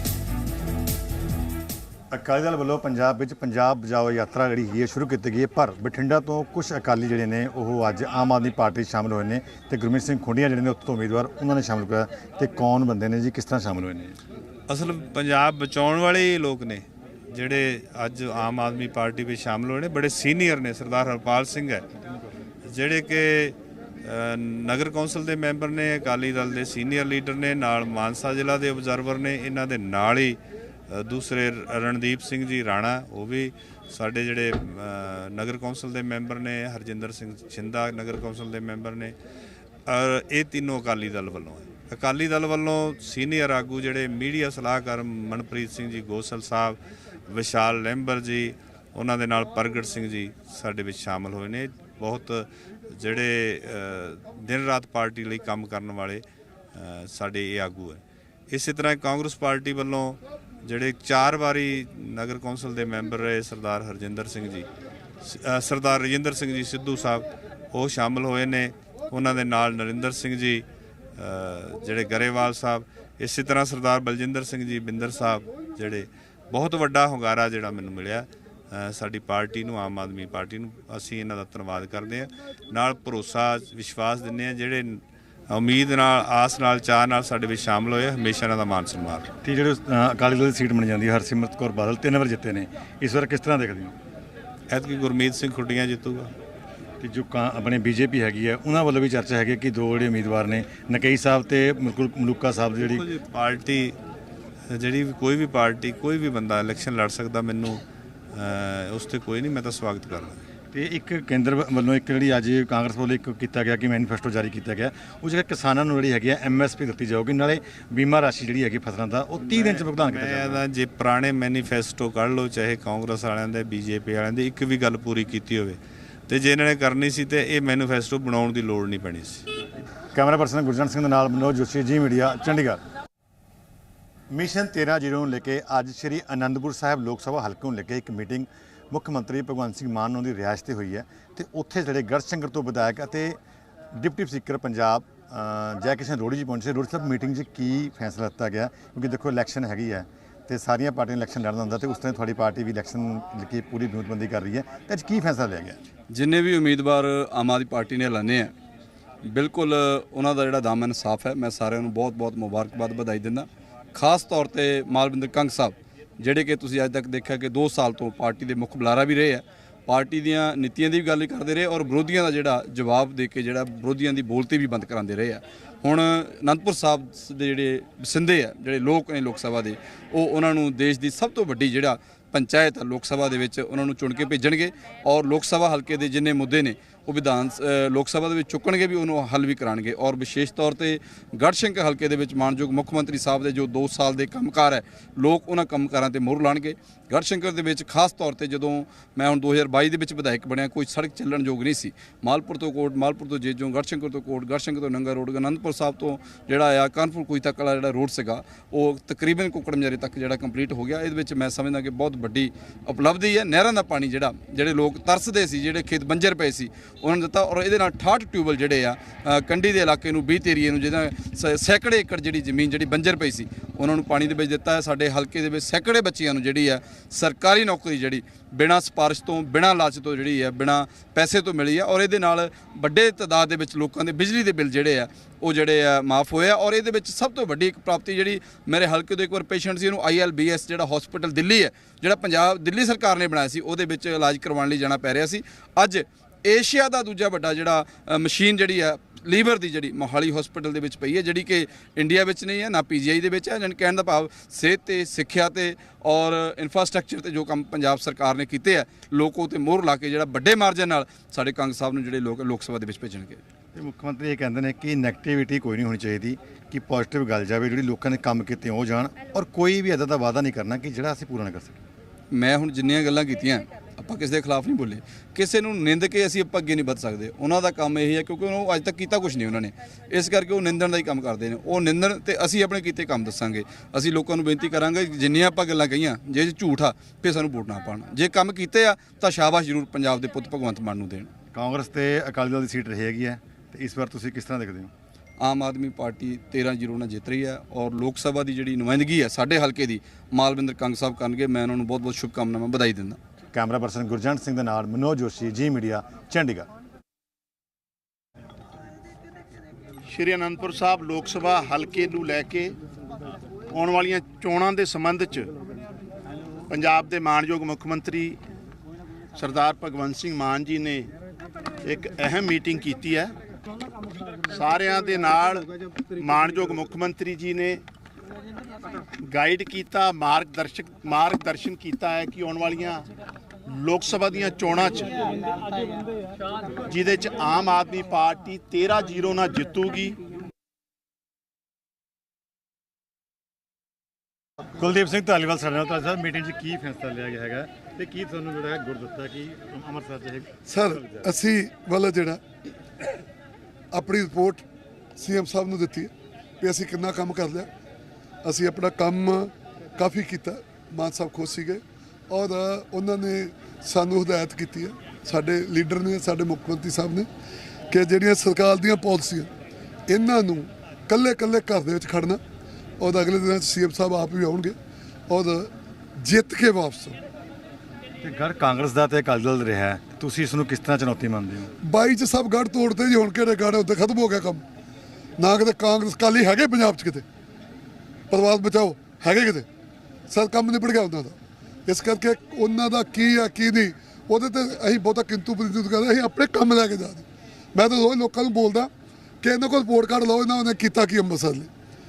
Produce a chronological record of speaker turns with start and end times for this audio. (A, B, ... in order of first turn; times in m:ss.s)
0:02.1-0:14.2 A
0:14.7-0:21.8 B
0:22.7-0:39.1 B
0:39.9-1:04.7 B
1:05.2-1:10.6 B
1:11.2-1:29.3 B
1:29.4-1:33.9 A
1:34.7-1:36.3 B
1:37.0-1:43.0 A
1:42.9-1:43.9 B
1:44.7-1:50.4 B
1:50.7-2:00.6 A
1:59.5-2:09.4 B
2:10.1-2:12.8 A
2:14.3-2:23.4 A
2:23.9-2:35.8 A
2:36.1-2:38.5 C
2:39.2-4:23.4 C
4:23.7-4:31.8 A
4:32.3-4:51.3 C
4:51.5-4:54.9 A
4:55.4-5:03.2 C
5:03.5-5:06.7 A
5:10.1-5:12.8 D
5:13.7-5:15.5 D
5:16.7-5:18.4 D
5:19.4-5:21.1 D
5:21.8-5:23.3 D
5:24.4-5:27.8 D
5:29.2-5:33.1 D
5:33.7-5:35.4 D
5:36.9-5:40.2 D
5:44.7-5:51.3 A
5:50.7-5:52.4 E
5:53.9-5:54.6 E
5:55.2-5:57.7 E
5:58.4-6:07.3 E
6:07.9-6:09.5 E
6:10.1-6:12.4 E
6:13.0-6:14.8 E
6:15.3-6:17.2 E
6:18.2-6:21.7 A
6:21.8-6:24.6 E
6:25.4-6:27.2 E
6:28.3-6:29.7 E
6:30.3-6:31.4 E
6:31.9-6:38.9 E
6:39.4-6:41.7 E